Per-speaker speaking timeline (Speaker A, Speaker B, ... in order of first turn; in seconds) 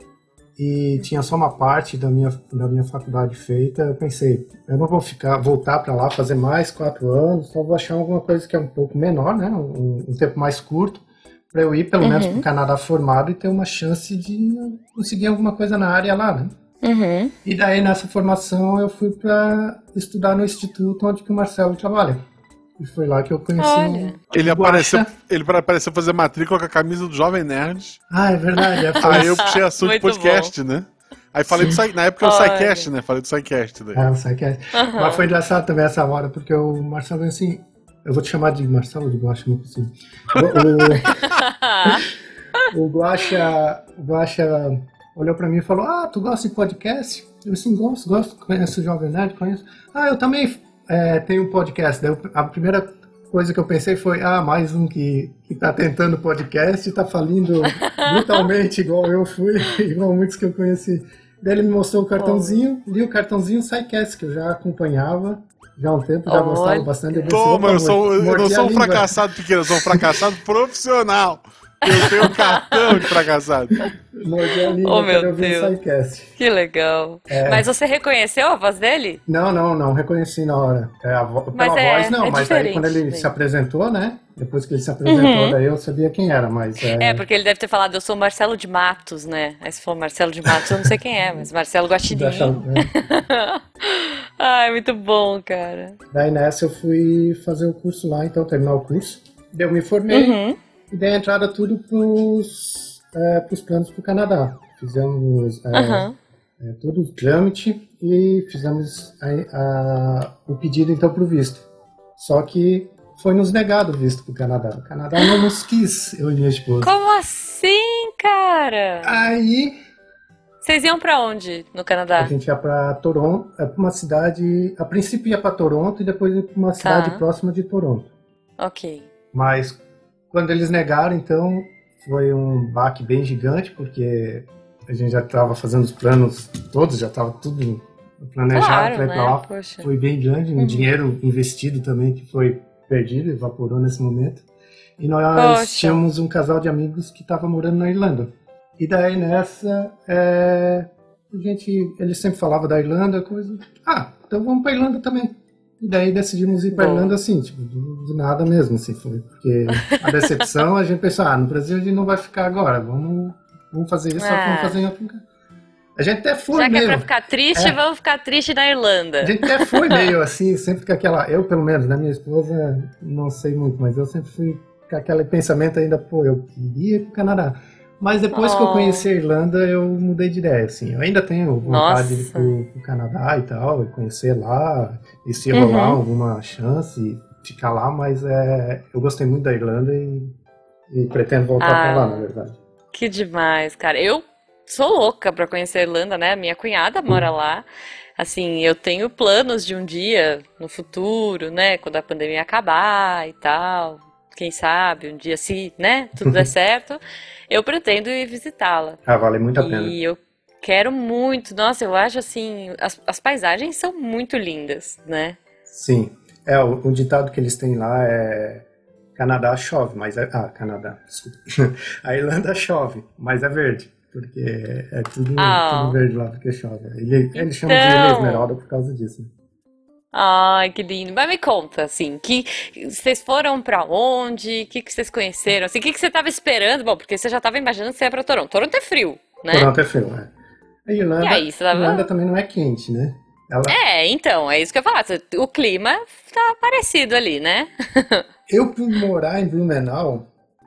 Speaker A: 0.6-16.5, 17.4-22.2, 22.8-25.1, 28.1-29.4, 33.9-41.2, 42.7-69.1, 69.8-70.2, 74.1-76.3, 77.3-77.7, 79.3-87.2, 92.0-93.0, 96.1-100.4, 100.9-106.1, 106.6-111.7, 112.2-116.9, 119.0-119.8, 122.2-128.1, 129.3-129.8, 130.3-144.4, 145.0-165.2, 166.0-167.8, 169.2-190.3, 190.9-192.6, 206.2-206.5, 209.1-209.9, 215.7-229.3, 239.5-240.3, 240.8-243.8, 248.5-250.3
Speaker B: 12.0-12.4, 16.8-17.3, 23.6-24.2, 28.6-30.5, 32.2-32.9, 34.7-35.2, 41.2-42.0, 57.8-58.4, 62.1-62.6, 66.3-67.3, 71.8-73.1, 74.8-75.7, 76.4-79.2, 81.5-83.3, 85.0-85.6, 87.0-96.0, 100.1-100.6, 105.7-106.2, 116.8-119.2, 120.6-122.3, 126.8-127.2, 128.6-129.1, 138.5-139.9, 140.6-140.9, 145.3-146.0, 156.7-157.1, 159.8-160.0, 164.2-164.8, 166.5-170.1, 178.3-179.1, 181.6-182.5, 185.5-186.0, 191.6-192.3, 192.9-197.7, 198.2-209.0, 209.6-215.4, 225.4-226.0, 227.3-228.5, 230.1-239.7, 241.2-242.1, 243.7-248.2
Speaker C: 24.3-28.0, 29.0-34.0, 67.3-73.8